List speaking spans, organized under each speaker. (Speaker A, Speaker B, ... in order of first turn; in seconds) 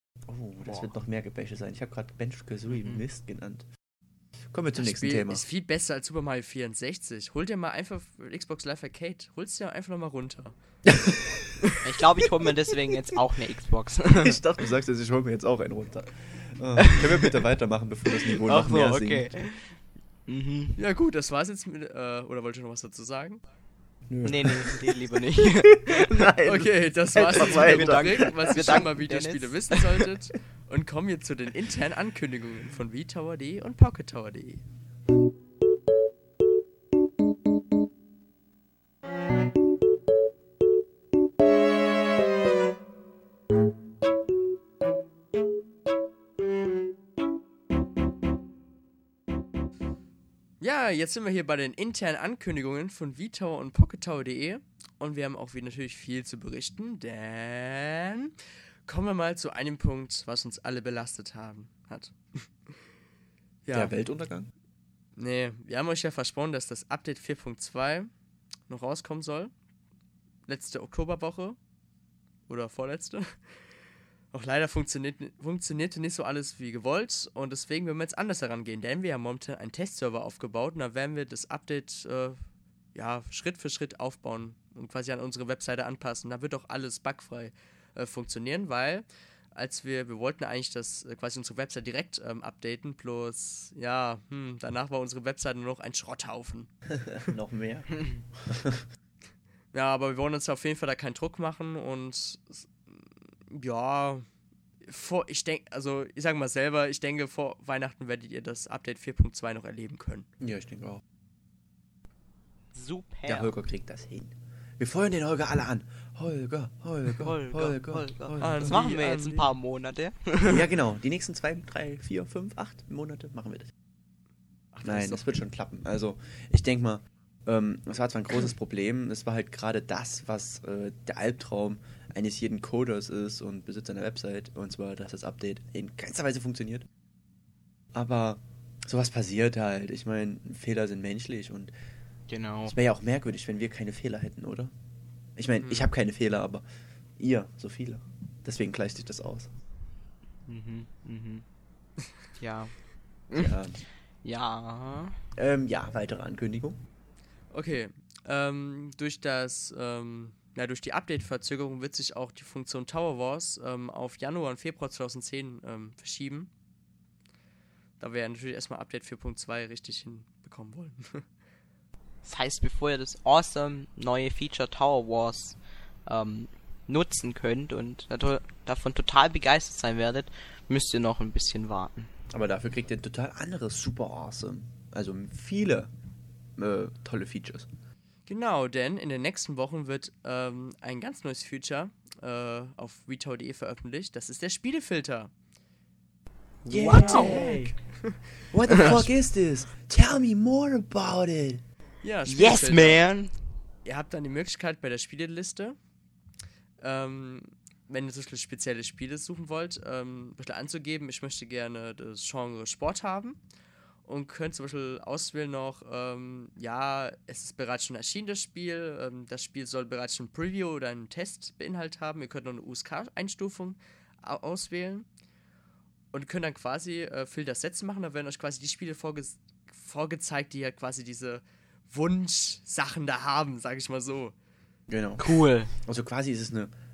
Speaker A: 0.3-3.6, 4.5-5.4, 10.8-11.6, 14.2-19.4, 24.1-25.0, 25.9-28.9, 63.7-64.5, 96.9-98.8, 110.4-111.0, 113.2-118.8, 120.5-123.7, 124.8-136.8, 137.9-141.7, 142.7-144.7, 145.4-146.6, 147.2-149.5, 153.3-153.8, 155.3-156.8, 182.3-185.9, 186.6-187.7, 196.7-197.7, 198.5-201.6, 234.9-236.7
Speaker B: 2.7-3.0, 11.8-14.4, 18.3-20.8, 24.2-26.3, 27.3-29.7, 112.7-113.5, 117.1-120.7, 142.3-142.7, 150.5-151.4, 152.4-152.7, 153.3-153.5, 154.2-155.2, 172.2-182.1, 196.6-197.5, 198.7-199.0, 202.2-203.3, 235.2-235.7
Speaker C: 4.8-10.5, 20.8-23.4, 26.4-34.6, 50.6-62.8, 63.6-63.9, 65.2-68.1, 68.7-69.5, 70.5-71.6, 72.5-73.5, 74.3-82.4, 82.9-96.7, 99.7-104.3, 104.8-110.3, 118.4-119.5, 124.7-125.3, 145.6-145.9, 157.5-166.5, 168.0-171.2, 188.2-195.3, 196.9-198.2, 202.0-203.1, 203.8-205.8, 206.8-213.4, 214.1-225.1, 226.1-234.3